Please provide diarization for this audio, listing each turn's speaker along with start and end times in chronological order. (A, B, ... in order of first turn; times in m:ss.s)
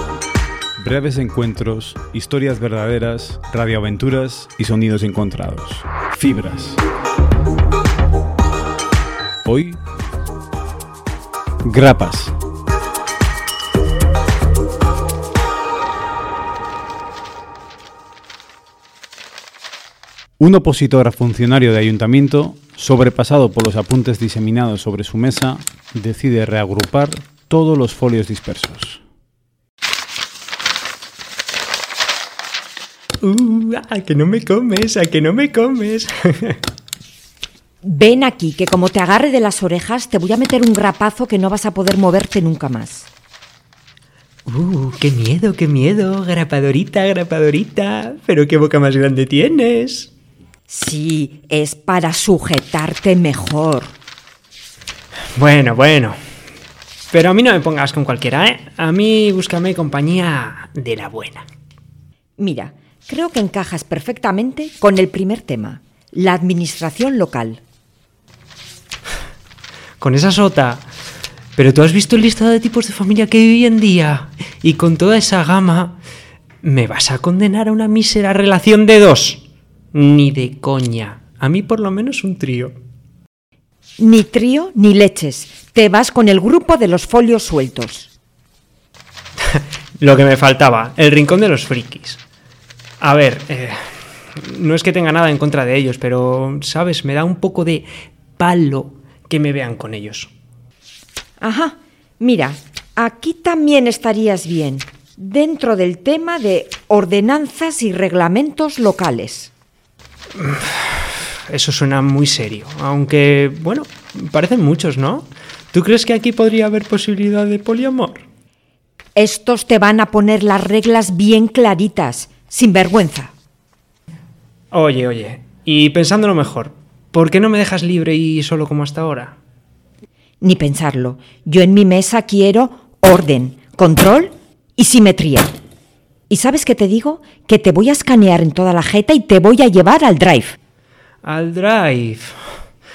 0:00.8-0:06.8 A
0:09.4-0:09.8 A
0:11.6-0:12.4 A
0:20.4-0:29.0 A
0:33.2-0:36.6 B
0:37.8-0:43.1 C
0:44.5-0:50.1 B
0:50.7-0:53.9 C
0:55.4-0:56.2 B
0:57.1-1:01.4 B
1:02.4-1:07.6 C
1:10.0-1:10.9 B
1:11.6-1:16.0 B
1:16.6-1:22.8 B
1:24.0-1:28.1 C
1:29.5-1:32.2 B
1:33.0-1:33.8 B
1:34.3-1:37.9 B
1:38.4-1:40.3 B
1:41.4-1:49.5 C
1:50.4-1:58.2 B
1:59.2-2:03.3 C
2:04.7-2:09.4 B
2:10.4-2:15.5 C
2:16.3-2:20.6 C
2:21.2-2:22.4 B